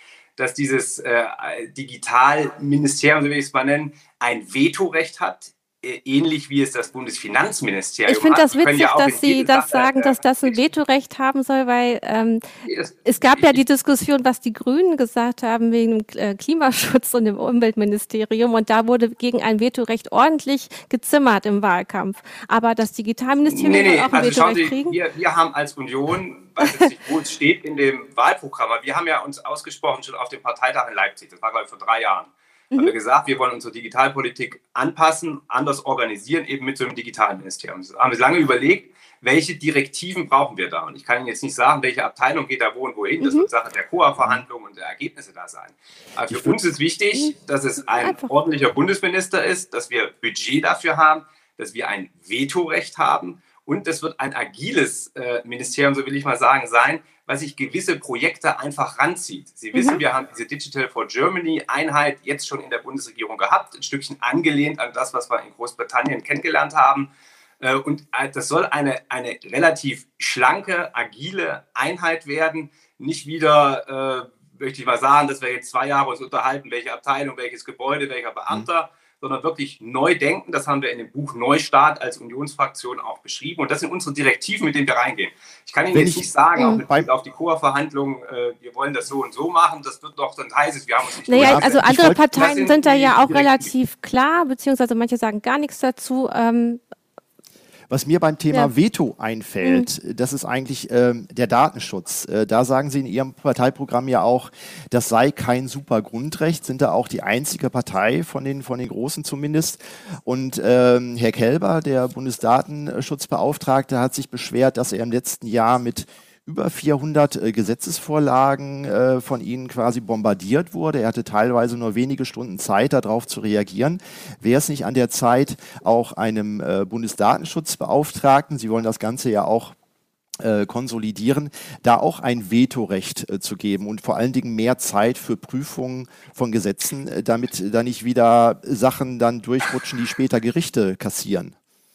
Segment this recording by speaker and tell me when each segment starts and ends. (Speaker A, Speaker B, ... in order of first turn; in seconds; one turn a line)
Speaker A: 0.4-10.6
Speaker B: 8.1-12.4
Speaker A: 12.6-13.6
Speaker B: 13.1-25.0
Speaker A: 23.4-67.1
Speaker B: 26.6-26.9
Speaker B: 43.2-43.5
Speaker C: 46.3-46.5
Speaker B: 48.0-48.3
Speaker B: 59.7-60.0
Speaker A: 67.6-93.7
Speaker C: 85.9-87.1
Speaker B: 91.3-96.8
Speaker C: 91.4-92.2
Speaker C: 97.9-129.7
Speaker B: 99.6-99.9
Speaker C: 130.4-141.5